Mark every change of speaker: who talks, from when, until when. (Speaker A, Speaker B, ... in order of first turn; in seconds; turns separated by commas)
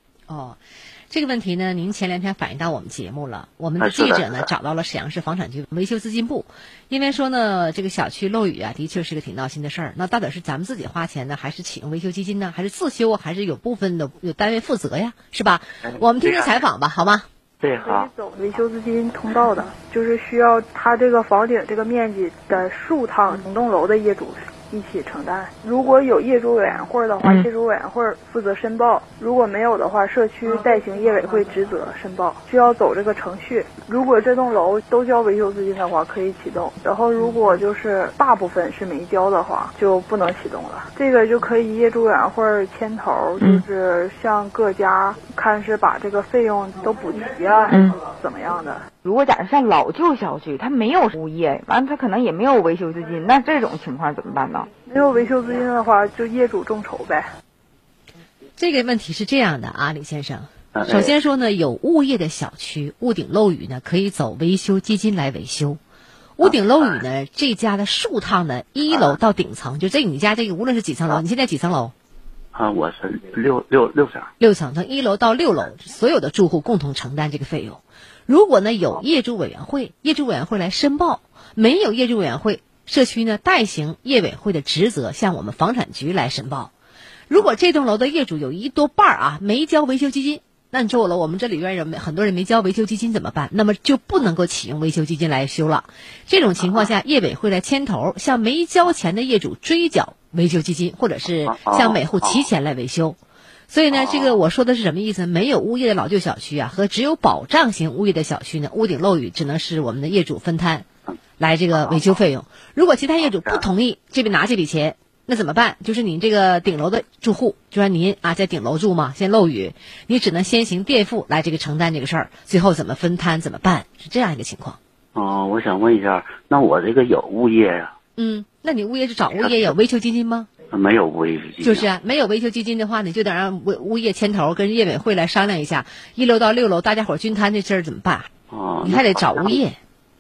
Speaker A: 0.3-17.3, Speaker B: 3.8-4.5, Speaker B: 15.8-16.6, Speaker B: 17.6-18.1, Speaker C: 17.8-48.8, Speaker D: 49.0-54.7, Speaker C: 54.9-57.3, Speaker A: 58.6-65.8, Speaker B: 60.8-61.1, Speaker A: 66.4-71.9, Speaker B: 66.4-67.0, Speaker B: 68.9-69.2, Speaker B: 72.5-74.3, Speaker A: 74.4-86.7, Speaker A: 87.3-103.2, Speaker B: 96.6-96.9, Speaker B: 101.5-102.5, Speaker A: 103.7-110.9, Speaker B: 103.9-104.4, Speaker A: 111.4-124.8, Speaker B: 111.7-112.2, Speaker B: 113.2-113.7, Speaker B: 125.2-128.0, Speaker A: 128.2-130.5, Speaker B: 129.3-129.8, Speaker B: 130.7-131.9, Speaker A: 131.6-138.3, Speaker B: 138.5-139.6, Speaker A: 138.8-139.8